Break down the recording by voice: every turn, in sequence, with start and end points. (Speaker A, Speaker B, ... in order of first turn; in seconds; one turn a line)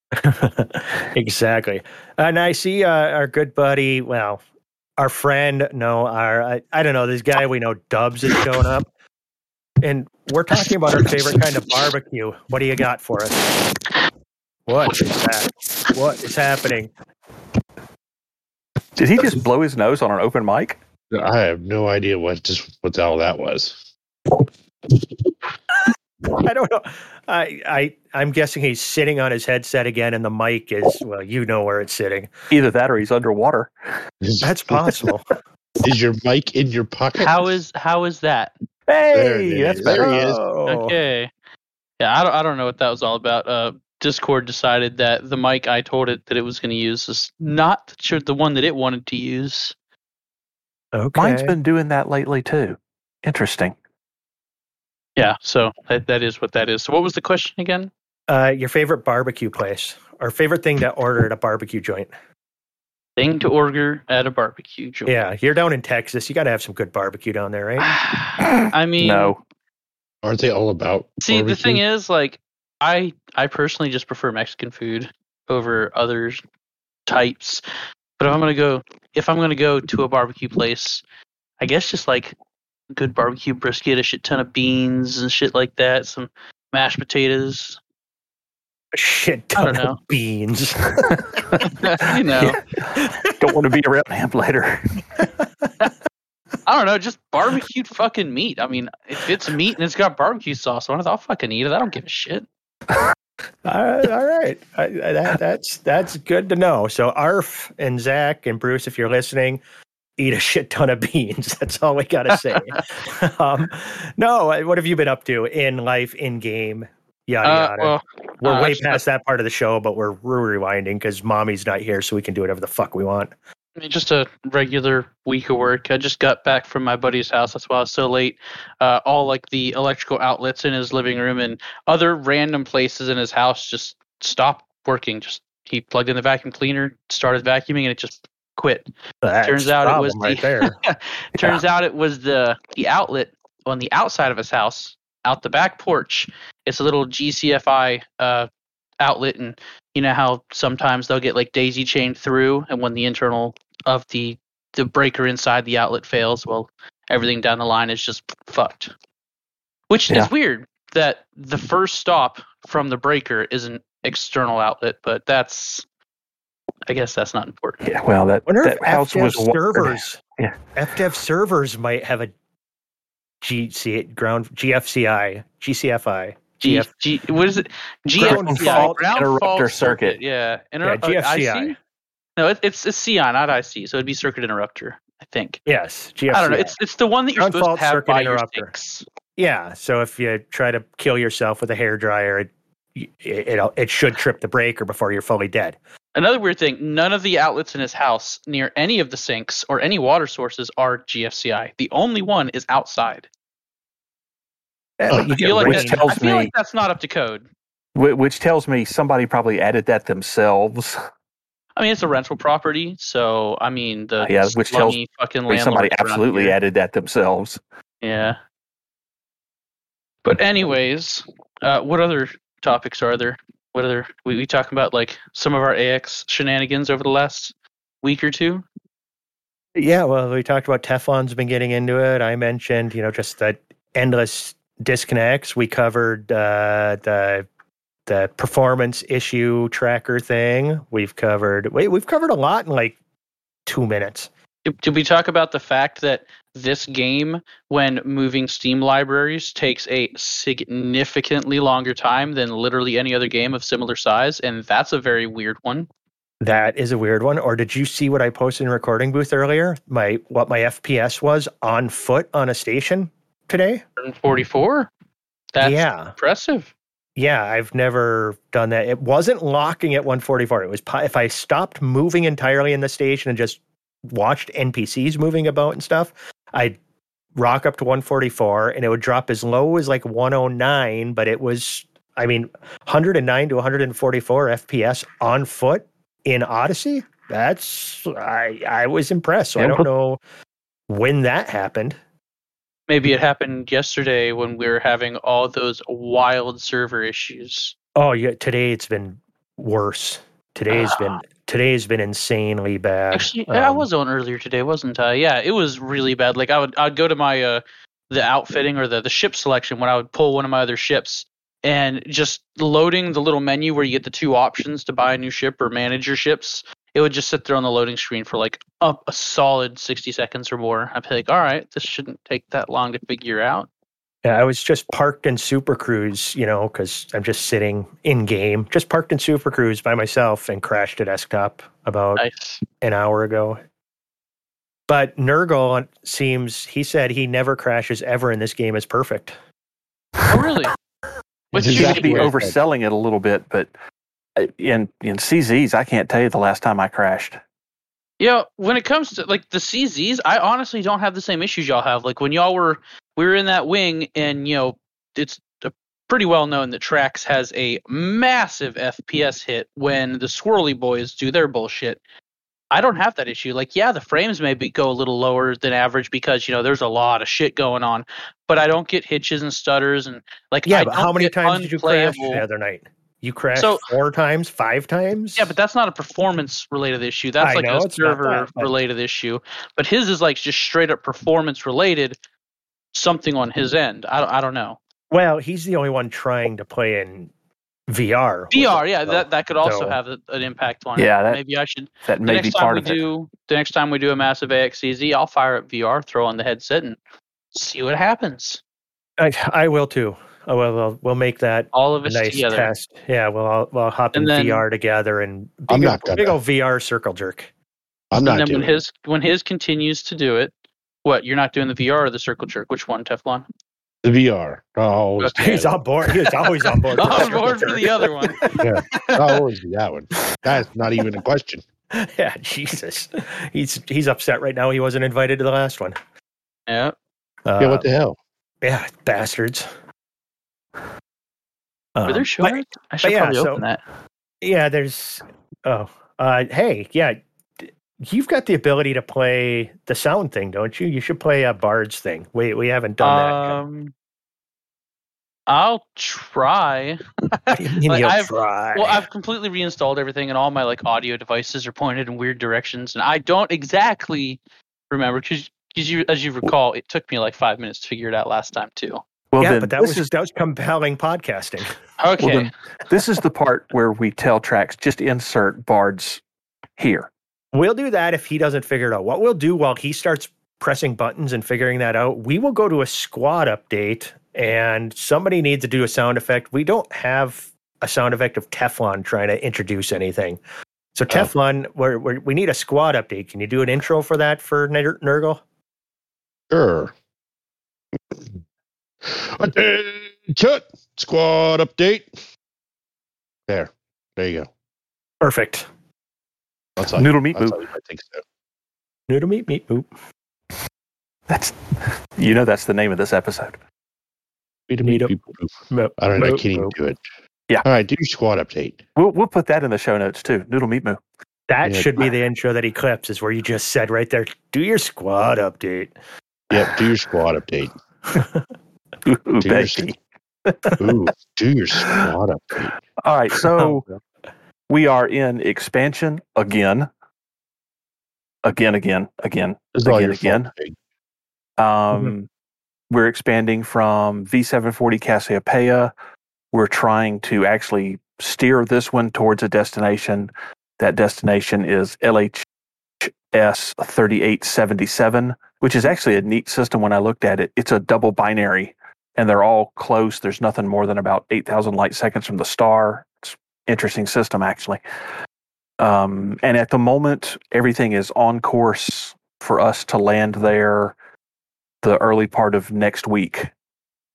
Speaker A: 0.2-4.4
Speaker A: 5.0-8.9
Speaker A: 9.8-13.4
Speaker A: 14.7-16.9
Speaker B: 19.0-20.8
Speaker C: 21.1-23.8
Speaker A: 26.4-32.3
Speaker B: 32.5-33.7
Speaker C: 34.2-35.0
Speaker A: 34.4-35.2
Speaker C: 35.8-37.6
Speaker D: 37.2-38.5
Speaker B: 38.9-40.1
Speaker A: 39.1-40.9
Speaker C: 39.1-40.4
Speaker D: 40.7-41.3
Speaker D: 42.0-49.7
Speaker A: 50.9-51.5
Speaker B: 51.1-53.7
Speaker D: 55.2-57.9
Speaker A: 58.3-62.1
Speaker D: 63.2-65.2
Speaker A: 65.0-67.9
Speaker D: 67.8-69.3
Speaker B: 69.0-69.4
Speaker C: 70.2-71.8
Speaker D: 71.2-76.4
Speaker D: 77.1-77.6
Speaker D: 78.2-81.0
Speaker D: 81.6-82.3
Speaker D: 82.9-87.8
Speaker A: 88.9-91.7
Speaker D: 89.5-90.0
Speaker D: 91.7-92.6
Speaker A: 92.9-93.4
Speaker B: 93.4-94.9
Speaker A: 95.2-95.7
Speaker D: 96.7-102.5
Speaker A: 103.6-109.6
Speaker A: 110.2-123.3
Speaker D: 112.5-112.8
Speaker D: 117.4-119.0
Speaker D: 123.8-138.8
Speaker A: 139.2-140.8
Speaker D: 139.4-148.5
Speaker B: 141.4-141.6
Speaker D: 149.0-158.9
Speaker D: 159.9-165.8
Speaker D: 166.9-167.8
Speaker B: 167.8-170.6
Speaker A: 168.5-170.2
Speaker A: 170.7-172.3
Speaker A: 173.4-176.9
Speaker D: 176.6-181.7
Speaker B: 178.2-180.2
Speaker A: 178.2-179.0
Speaker A: 180.8-181.7
Speaker D: 182.4-185.6
Speaker A: 185.7-186.7
Speaker D: 186.3-189.0
Speaker A: 187.4-188.7
Speaker A: 189.4-195.8
Speaker D: 196.2-203.3
Speaker A: 205.0-206.1
Speaker D: 205.3-207.4
Speaker B: 205.6-206.5
Speaker B: 207.9-211.0
Speaker D: 211.8-216.6
Speaker B: 214.2-215.0
Speaker B: 215.5-217.6
Speaker D: 218.0-218.4
Speaker D: 220.2-228.6
Speaker A: 229.8-237.4
Speaker A: 238.1-242.9
Speaker A: 243.7-244.3
Speaker D: 244.7-255.9
Speaker A: 256.4-263.8
Speaker D: 264.0-264.9
Speaker D: 265.5-266.7
Speaker A: 265.6-266.1
Speaker A: 267.2-276.8
Speaker A: 277.4-290.2
Speaker B: 289.6-289.9
Speaker A: 290.9-291.9
Speaker D: 292.9-297.7
Speaker A: 297.9-303.9
Speaker D: 300.7-301.1
Speaker D: 303.1-323.7
Speaker A: 324.2-332.2
Speaker D: 332.2-332.6
Speaker A: 332.8-333.6
Speaker A: 334.9-339.3
Speaker D: 340.3-340.8
Speaker D: 341.5-342.3
Speaker C: 341.5-342.6
Speaker B: 341.6-343.7
Speaker B: 344.4-347.4
Speaker D: 348.2-362.0
Speaker D: 362.7-372.4
Speaker A: 370.7-375.5
Speaker D: 373.5-373.9
Speaker D: 375.4-382.1
Speaker A: 377.4-378.7
Speaker D: 382.9-384.8
Speaker A: 385.1-387.3
Speaker A: 387.9-390.0
Speaker D: 388.5-397.0
Speaker B: 391.0-391.4
Speaker B: 392.1-393.0
Speaker D: 397.5-398.6
Speaker A: 399.2-407.5
Speaker D: 401.7-402.7
Speaker D: 404.1-404.6
Speaker C: 405.7-406.4
Speaker C: 408.1-408.8
Speaker D: 408.2-410.5
Speaker D: 411.0-413.4
Speaker C: 414.0-415.8
Speaker A: 415.4-418.7
Speaker D: 416.9-418.4
Speaker C: 418.6-421.6
Speaker D: 418.9-419.2
Speaker A: 421.9-425.9
Speaker D: 426.7-426.9
Speaker A: 427.4-427.9
Speaker C: 427.6-428.2
Speaker A: 428.6-429.7
Speaker A: 431.9-433.6
Speaker D: 432.1-433.8
Speaker A: 434.4-443.6
Speaker D: 443.0-443.9
Speaker D: 445.5-454.4
Speaker A: 447.5-449.0
Speaker D: 454.9-459.0
Speaker B: 459.3-460.1
Speaker A: 459.4-461.7
Speaker D: 462.0-462.5
Speaker B: 462.2-466.2
Speaker B: 466.8-467.1
Speaker A: 467.5-480.4
Speaker A: 480.9-485.4
Speaker C: 486.5-486.9
Speaker C: 488.1-488.4
Speaker C: 489.0-492.1
Speaker C: 493.5-494.5
Speaker A: 495.2-495.7
Speaker C: 496.8-498.2
Speaker B: 496.9-497.6
Speaker A: 499.1-499.9
Speaker B: 501.3-503.6
Speaker C: 504.7-507.0
Speaker A: 504.8-505.1
Speaker A: 505.7-506.7
Speaker C: 507.6-508.8
Speaker B: 508.9-511.0
Speaker A: 511.5-515.9
Speaker C: 511.6-511.9
Speaker C: 516.5-517.7
Speaker A: 518.1-518.4
Speaker B: 519.0-520.8
Speaker C: 519.4-519.9
Speaker C: 520.8-522.7
Speaker B: 523.0-523.8
Speaker A: 523.6-524.0
Speaker B: 524.7-526.9
Speaker B: 528.4-530.5
Speaker C: 529.7-530.8
Speaker B: 531.6-532.3
Speaker B: 532.9-535.9
Speaker B: 536.5-542.4
Speaker B: 543.0-554.8
Speaker B: 555.8-560.9
Speaker B: 561.8-563.5